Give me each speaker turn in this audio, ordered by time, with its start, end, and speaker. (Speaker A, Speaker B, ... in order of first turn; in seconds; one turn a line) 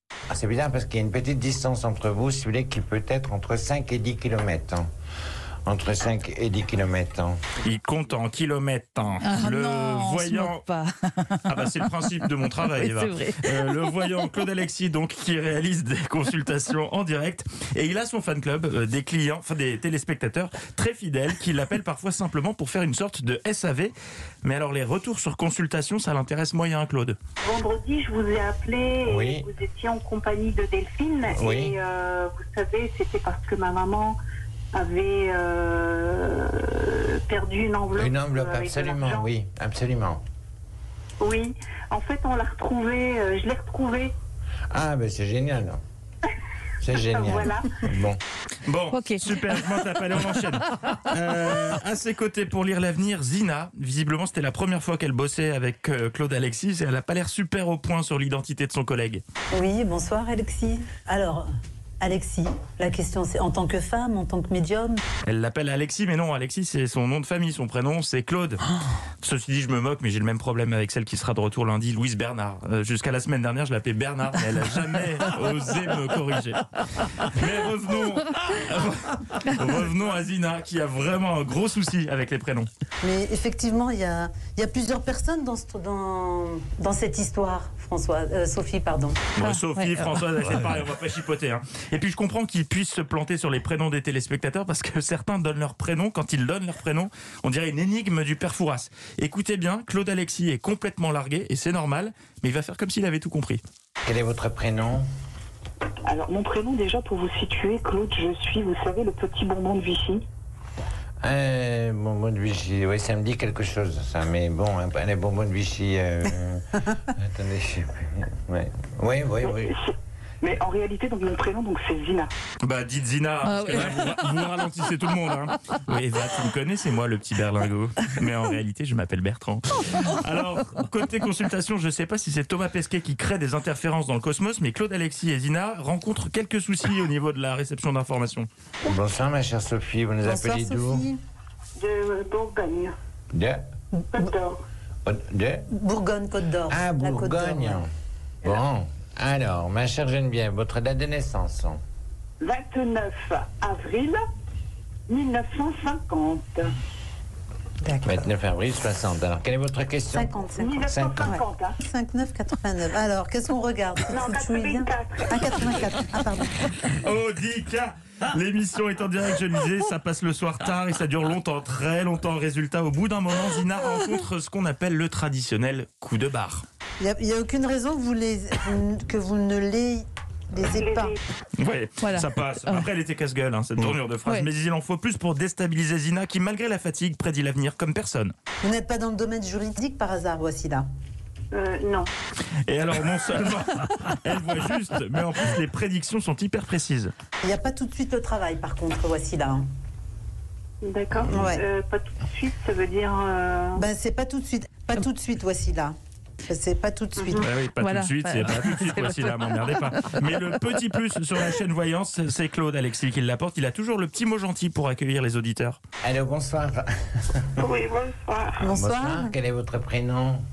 Speaker A: 0.3-4.9
Speaker A: 5.7-7.4
Speaker B: 7.6-10.6
Speaker C: 9.2-11.7
Speaker B: 11.4-27.2
Speaker C: 12.6-14.1
Speaker D: 27.4-34.2
Speaker A: 29.0-29.5
Speaker A: 31.3-31.8
Speaker D: 34.7-39.2
Speaker A: 37.9-40.2
Speaker D: 41.2-44.1
Speaker A: 44.7-45.8
Speaker A: 46.8-48.2
Speaker D: 47.1-47.7
Speaker B: 48.6-59.2
Speaker C: 48.9-49.8
Speaker E: 59.5-61.5
Speaker E: 62.0-65.0
Speaker B: 65.2-68.6
Speaker B: 69.2-82.7
Speaker E: 83.0-89.2
Speaker B: 89.4-103.6
Speaker C: 89.4-90.1
Speaker A: 104.0-105.1
Speaker D: 106.1-110.2
Speaker A: 111.2-119.7
Speaker D: 119.4-122.3
Speaker B: 122.6-138.5
Speaker C: 123.4-124.6
Speaker A: 138.8-141.1
Speaker E: 140.2-141.2
Speaker D: 141.8-142.9
Speaker A: 143.3-143.6
Speaker E: 144.0-144.3
Speaker D: 144.1-144.6
Speaker A: 145.1-145.7
Speaker E: 145.7-147.8
Speaker A: 146.7-147.9
Speaker A: 148.4-151.8
Speaker D: 152.4-154.2
Speaker D: 155.1-156.7
Speaker A: 158.0-161.3
Speaker E: 160.1-166.5
Speaker D: 160.6-161.8
Speaker D: 164.1-165.7
Speaker B: 166.9-176.7
Speaker E: 177.0-181.2
Speaker D: 180.7-181.2
Speaker B: 181.6-188.3
Speaker C: 182.0-182.9
Speaker E: 188.6-190.8
Speaker D: 191.5-192.1
Speaker B: 192.7-197.1
Speaker E: 197.4-199.6
Speaker D: 200.8-203.8
Speaker E: 201.3-201.6
Speaker E: 203.8-205.9
Speaker E: 206.5-207.5
Speaker B: 207.4-215.8
Speaker C: 207.4-210.1
Speaker A: 216.0-217.7
Speaker D: 217.6-218.7
Speaker E: 218.6-219.3
Speaker A: 218.7-220.4